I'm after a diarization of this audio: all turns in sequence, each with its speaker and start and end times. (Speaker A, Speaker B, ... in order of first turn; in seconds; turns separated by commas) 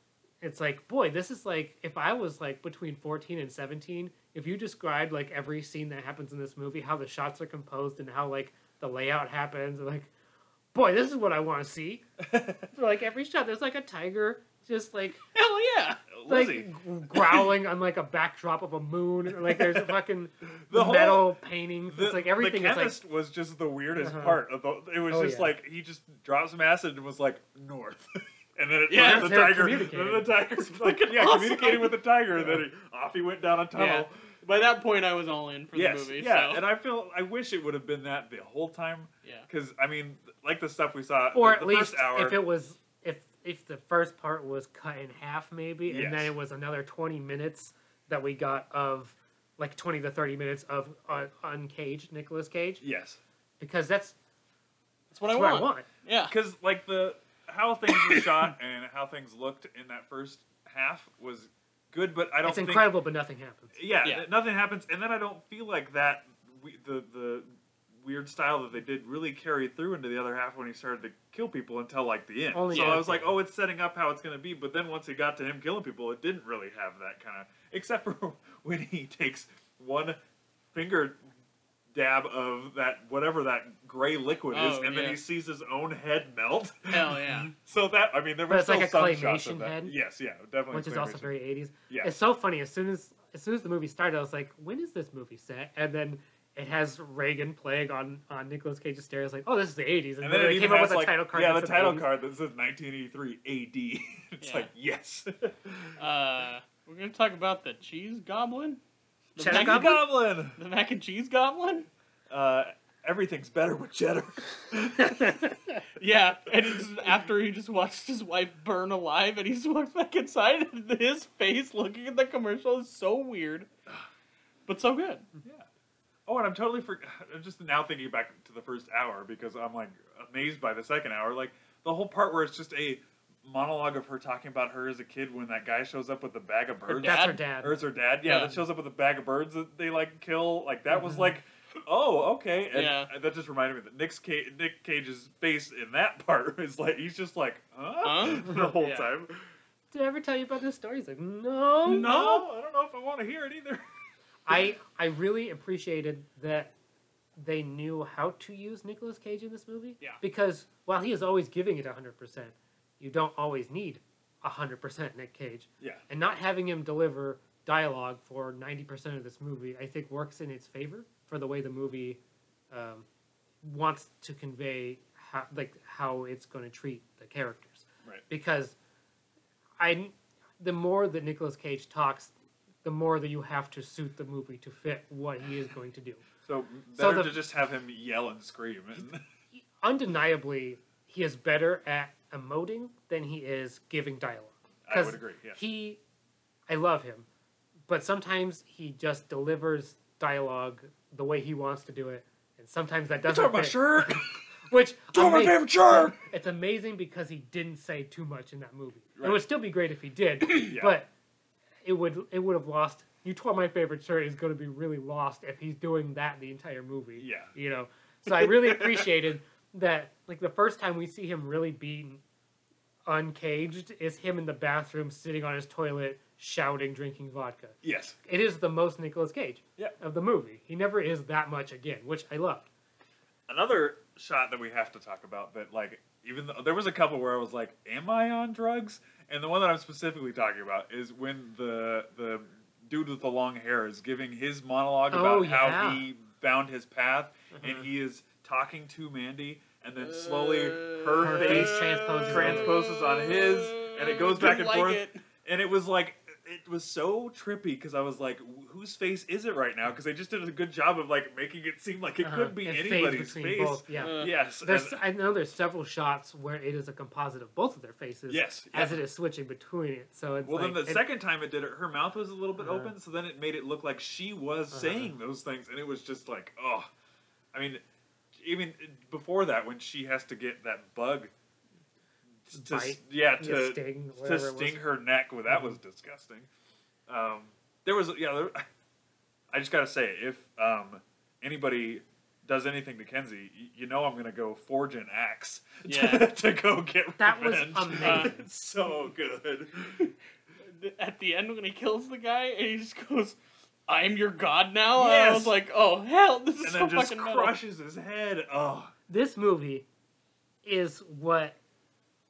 Speaker A: 0.4-10.1, Speaker A: 10.7-12.1, Speaker B: 12.2-12.7, Speaker A: 12.7-15.2, Speaker C: 15.3-16.0, Speaker B: 16.1-17.4, Speaker A: 16.3-23.0, Speaker B: 19.3-21.4, Speaker B: 21.9-34.1, Speaker A: 24.0-24.4, Speaker A: 25.1-25.5, Speaker C: 28.9-29.4, Speaker A: 28.9-30.4, Speaker C: 30.6-32.0, Speaker C: 33.8-36.6, Speaker B: 35.7-42.4, Speaker A: 41.3-52.8, Speaker B: 45.9-46.3, Speaker B: 52.8-53.2, Speaker A: 53.6-54.2, Speaker C: 55.1-56.3, Speaker A: 55.3-55.9, Speaker B: 56.3-62.9, Speaker A: 62.4-63.8, Speaker B: 63.7-67.5, Speaker B: 68.0-80.2, Speaker A: 72.5-73.4, Speaker C: 72.7-73.0, Speaker B: 80.7-81.2, Speaker B: 81.9-91.3, Speaker C: 84.5-85.2, Speaker C: 86.9-87.5, Speaker A: 88.5-90.0, Speaker A: 90.7-102.1, Speaker B: 100.2-106.0, Speaker C: 104.4-104.7, Speaker C: 106.0-108.8, Speaker C: 109.3-111.9, Speaker A: 109.4-110.0, Speaker B: 109.4-110.6, Speaker B: 112.3-115.5, Speaker A: 115.0-115.6, Speaker C: 116.0-123.7, Speaker C: 124.7-125.3, Speaker B: 125.4-125.7, Speaker B: 126.3-149.4, Speaker C: 136.9-137.4, Speaker A: 137.0-137.8, Speaker C: 138.2-138.6, Speaker C: 142.7-143.1, Speaker C: 148.0-149.1, Speaker A: 149.9-152.2, Speaker B: 151.8-153.8, Speaker C: 151.9-152.4, Speaker A: 154.5-156.7, Speaker A: 157.4-172.2, Speaker A: 172.7-173.1, Speaker A: 173.6-178.8, Speaker A: 179.8-182.3, Speaker A: 182.8-186.2, Speaker B: 186.4-189.2, Speaker A: 187.0-187.4, Speaker A: 189.8-196.0, Speaker B: 194.9-195.6, Speaker A: 196.7-197.3, Speaker A: 197.9-211.1, Speaker B: 203.2-204.4, Speaker B: 205.1-206.2, Speaker B: 209.2-209.4, Speaker B: 210.5-211.0, Speaker A: 211.8-222.2, Speaker B: 217.2-217.5, Speaker A: 223.1-232.7, Speaker B: 227.8-228.2, Speaker B: 233.5-265.0, Speaker A: 245.1-246.1, Speaker A: 247.5-247.9, Speaker C: 250.1-255.2, Speaker A: 251.2-252.8, Speaker A: 262.2-271.1, Speaker C: 264.0-264.3, Speaker B: 268.3-269.0, Speaker B: 270.4-276.9, Speaker A: 272.6-272.9, Speaker A: 274.7-275.1, Speaker B: 277.5-277.8, Speaker B: 278.4-281.3, Speaker B: 282.5-286.5, Speaker A: 282.5-284.8, Speaker B: 287.1-288.7, Speaker B: 289.5-300.1, Speaker C: 295.9-296.3, Speaker A: 297.2-298.4, Speaker C: 298.0-298.4, Speaker C: 300.6-307.6, Speaker B: 305.0-305.6, Speaker B: 306.6-308.9, Speaker A: 309.1-309.9, Speaker A: 310.6-311.6